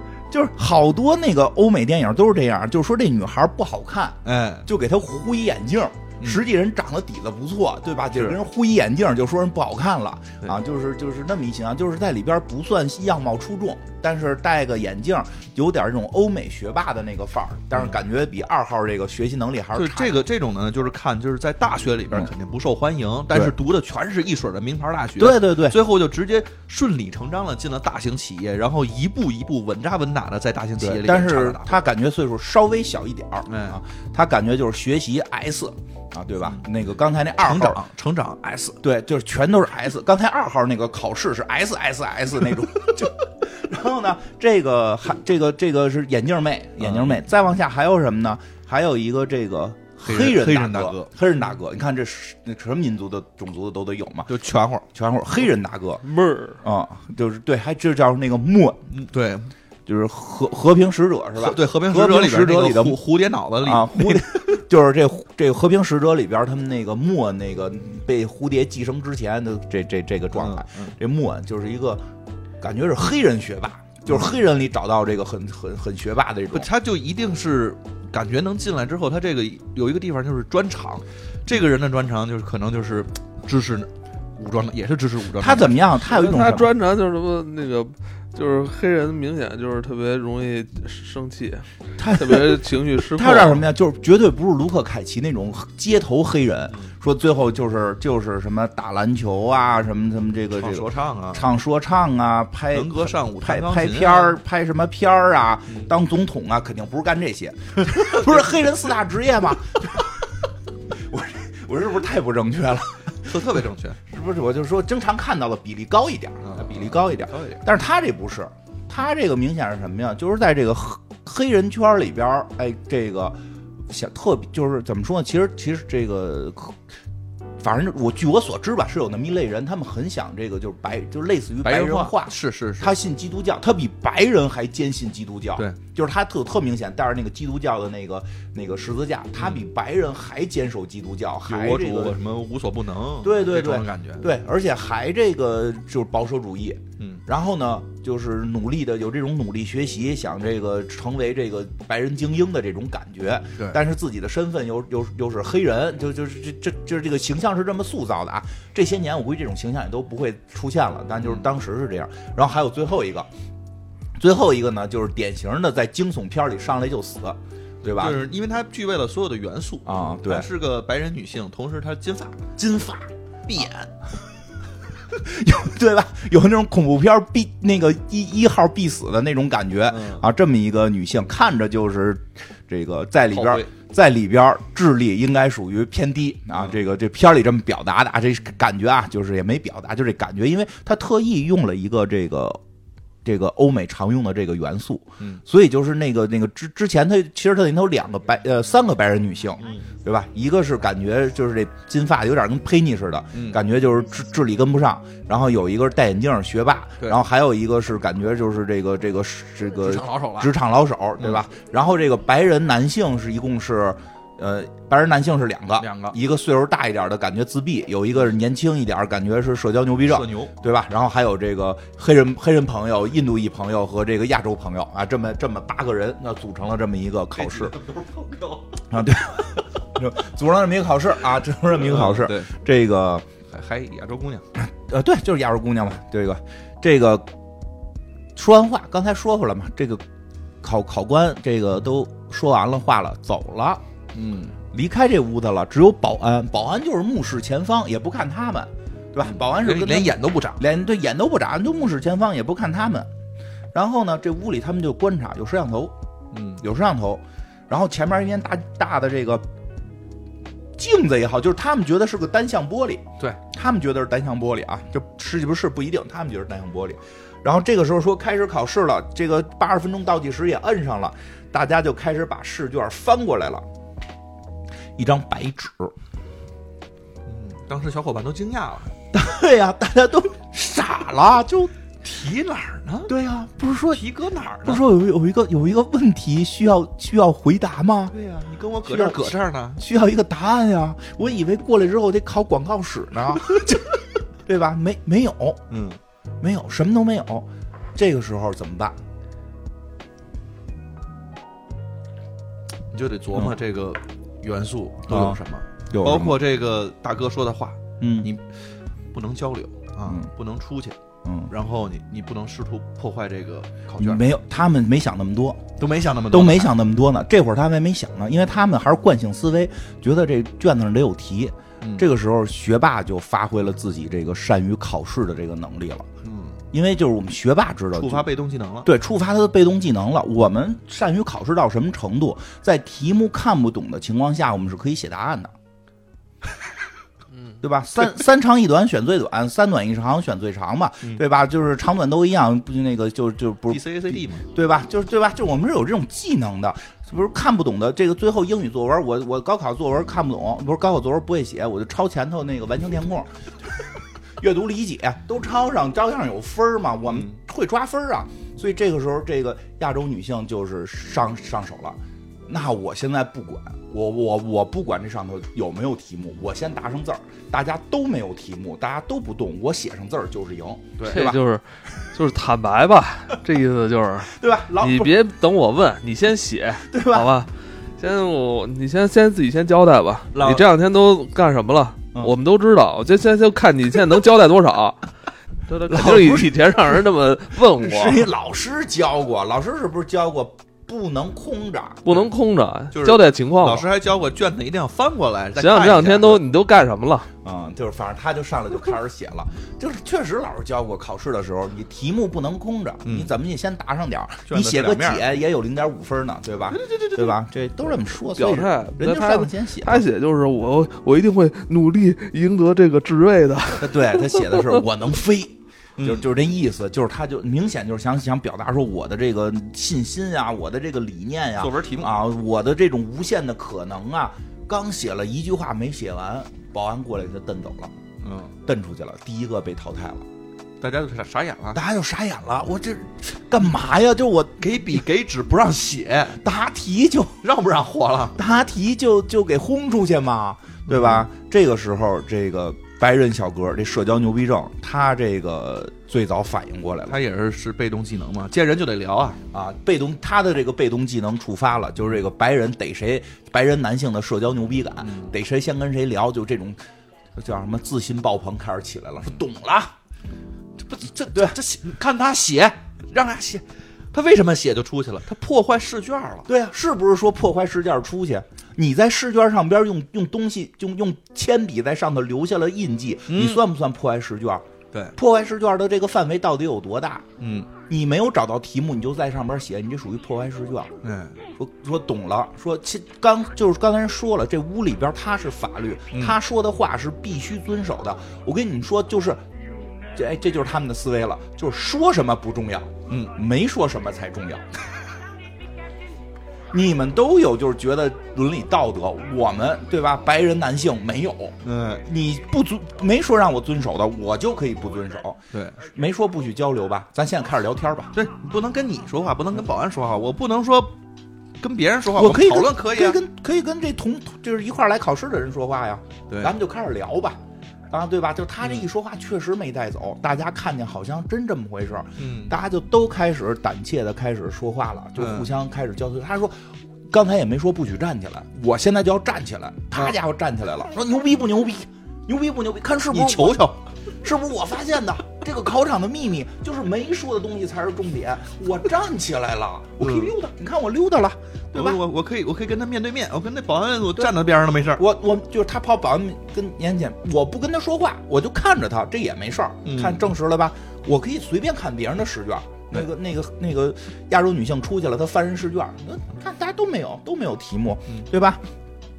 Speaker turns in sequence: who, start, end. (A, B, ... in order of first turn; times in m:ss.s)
0:00.3-0:20.3 A
0:04.2-0:04.7 B
0:08.1-0:08.4 B
0:19.8-0:31.8 B
0:25.2-0:25.8 A
0:30.8-0:37.8 A
0:33.5-0:33.8 B
0:37.4-0:38.8 B
0:38.8-0:54.3 A
0:46.8-0:47.2 B
0:50.0-0:51.1 B
0:54.3-0:54.9 B
0:54.9-0:56.0 A
0:56.0-0:56.6 C
0:56.6-0:58.9 A
0:58.9-0:59.5 B
0:59.9-1:03.0 A
1:01.4-1:04.6 B
1:03.6-1:12.0 A
1:10.3-1:11.0 B
1:12.6-1:16.7 A
1:14.1-1:14.4 B
1:16.5-1:25.7 B
1:25.4-1:26.7 A
1:26.0-1:33.6 C
1:32.0-1:53.4 A
1:40.6-1:41.5 B
1:42.7-1:44.4 B
1:47.9-1:48.4 B
1:53.2-1:54.0 B
1:54.0-2:03.4 A
1:56.4-1:57.6 B
2:03.9-2:06.8 A
2:07.6-2:22.2 A
2:11.6-2:12.9 B
2:21.5-2:24.3 B
2:23.2-2:43.3 A
2:41.2-2:41.5 B
2:44.2-2:48.2 A
2:48.0-2:52.5 B
2:49.8-2:50.5 A
2:52.6-2:53.9 A
2:53.5-2:53.8 B
2:55.0-3:12.6 A
2:59.9-3:00.3 B
3:03.3-3:03.7 B
3:13.2-3:47.8 A
3:19.6-3:19.9 B
3:23.3-3:23.6 B
3:29.8-3:30.5 B
3:31.2-3:31.4 B
3:35.8-3:36.2 B
3:40.0-3:40.5 B
3:47.4-3:48.8 B
3:48.9-3:53.3 A
3:51.8-3:52.5 B
3:53.5-3:54.5 B
3:54.6-3:57.3 A
3:58.4-4:00.0 A
4:00.6-4:03.8 A
4:04.2-4:04.6 B
4:04.7-4:13.1 A
4:09.2-4:10.6 B
4:13.7-4:15.9 A
4:16.3-4:16.6 B
4:16.6-4:19.4 A
4:20.8-4:33.6 A
4:35.0-4:35.9 A
4:37.3-4:38.9 B
4:39.1-4:41.7 A
4:42.0-4:43.1 B
4:43.1-4:44.0 A
4:43.9-4:44.8 B
4:44.6-4:48.1 A
4:48.1-4:49.8 B
4:48.8-4:55.6 A
4:55.7-4:56.0 B
4:56.4-4:59.0 A
5:02.9-5:08.4 B
5:05.1-5:06.4 A
5:08.0-5:08.3 A
5:09.1-5:11.0 B
5:11.2-5:11.5 A
5:11.5-5:14.2 B
5:14.0-5:15.6 A
5:15.8-5:16.8 B
5:16.3-5:26.1 A
5:21.8-5:22.1 B
5:26.2-5:26.6 B
5:26.7-5:28.3 A
5:27.9-5:28.9 B
5:28.8-5:35.5 A
5:37.6-6:11.4 A
5:43.7-5:44.4 B
5:57.1-5:57.4 B
6:11.0-6:11.4 B
6:11.0-6:25.0 C
6:14.3-6:15.2 A
6:16.9-6:17.3 A
6:20.4-6:20.6 B
6:25.7-6:28.3 C
6:25.9-6:27.0 A
6:27.8-6:32.1 A
6:32.0-6:33.9 C
6:32.9-6:36.4 B
6:35.6-6:37.3 C
6:37.4-6:50.0 A
6:43.1-6:43.3 B
6:44.5-6:45.3 B
6:46.7-6:47.4 B
6:48.3-6:54.8 C
6:53.8-7:08.0 A
6:56.0-6:56.3 B
7:01.6-7:02.2 B
7:08.2-7:08.6 B
7:08.6-7:10.3 A
7:10.8-7:11.8 B
7:11.7-7:14.9 A
7:14.6-7:16.4 B
7:16.4-7:17.4 A
7:17.4-7:18.4 B
7:18.4-7:27.2 A
7:20.9-7:21.3 B
7:27.1-7:29.4 B
7:29.5-7:36.8 A
7:35.0-7:35.3 B
7:37.4-7:40.0 A
7:40.8-7:46.5 B
7:41.3-7:41.6 A
7:46.5-7:57.3 A
7:53.3-7:53.6 B
7:57.4-7:57.7 B
7:57.9-8:00.9 A
8:01.0-8:01.4 B
8:01.6-8:09.4 A
8:06.1-8:06.4 B
8:10.1-8:14.7 A
8:13.1-8:13.3 B
8:16.7-8:28.1 A
8:21.6-8:22.1 B
8:25.5-8:25.8 B
8:28.1-8:30.9 B
8:31.6-8:33.2 B
8:32.2-8:37.4 A
8:37.9-8:53.6 A
8:42.2-8:42.6 B
8:45.2-8:45.5 B
8:53.1-8:53.9 B
8:54.2-9:02.0 A
9:00.0-9:00.3 B
9:01.7-9:05.0 B
9:05.0-9:18.6 A
9:09.8-9:10.3 B